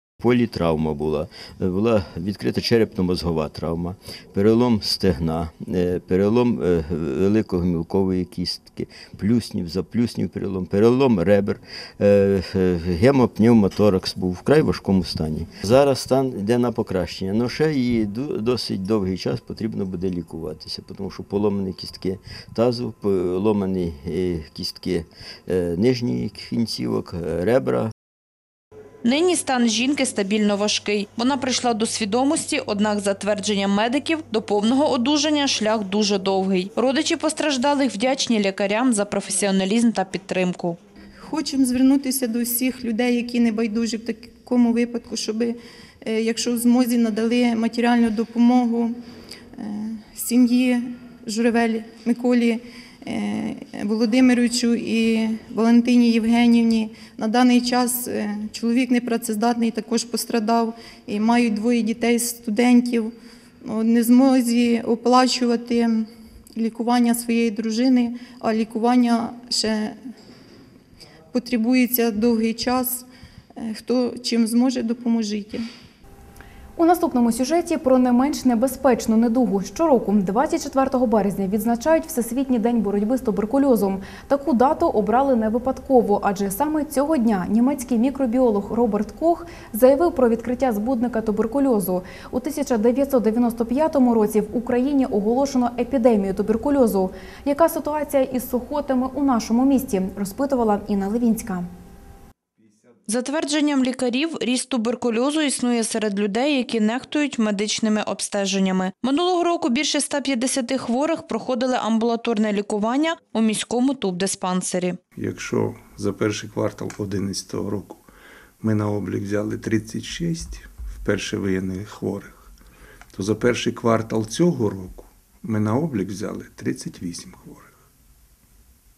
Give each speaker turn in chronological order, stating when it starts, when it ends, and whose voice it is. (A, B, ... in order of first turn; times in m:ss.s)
0:00.2-0:27.9 A
0:29.0-0:40.8 B
0:41.2-0:48.9 C
0:49.6-1:03.1 C
1:03.6-1:09.9 C
1:11.3-1:13.0 C
1:13.6-1:15.6 C
1:16.8-1:41.7 D
1:43.1-1:55.0 B
1:55.2-1:58.0 E
1:58.6-2:02.5 E
2:03.1-2:07.8 E